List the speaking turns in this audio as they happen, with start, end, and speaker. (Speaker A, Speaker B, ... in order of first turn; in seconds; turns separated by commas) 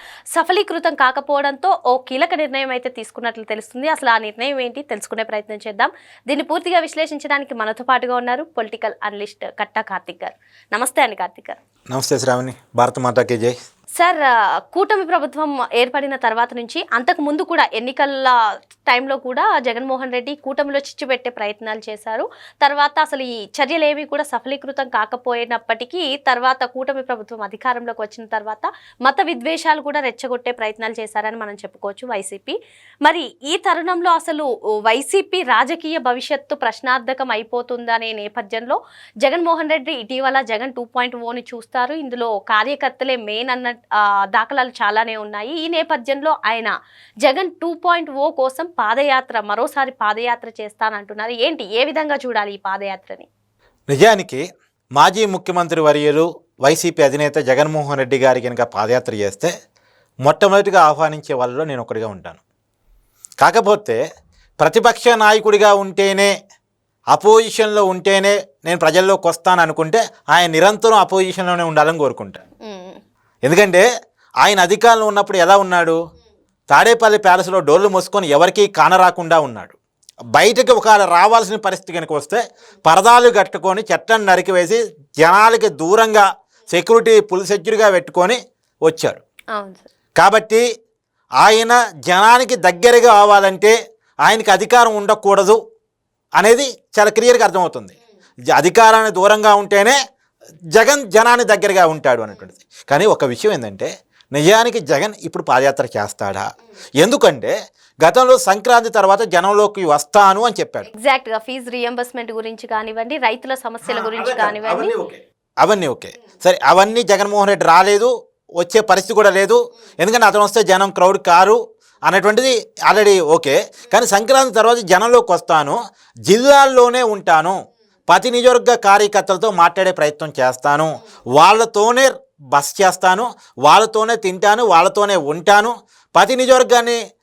Speaker A: 0.3-11.6, Speaker B: 11.9-13.6, Speaker A: 14.0-53.3, Speaker B: 53.9-54.4, Speaker B: 55.0-59.5, Speaker B: 60.2-62.4, Speaker B: 63.4-64.0, Speaker B: 64.6-66.3, Speaker B: 67.1-72.4, Speaker A: 72.6-73.0, Speaker B: 73.5-73.9, Speaker B: 74.4-76.0, Speaker B: 76.7-79.8, Speaker B: 80.3-89.2, Speaker A: 89.6-89.9, Speaker B: 90.2-90.6, Speaker B: 91.4-93.8, Speaker B: 94.2-95.6, Speaker B: 96.4-98.0, Speaker B: 98.5-100.0, Speaker B: 100.8-106.5, Speaker B: 107.0-110.9, Speaker A: 110.9-114.9, Speaker B: 113.9-127.6, Speaker B: 128.1-137.0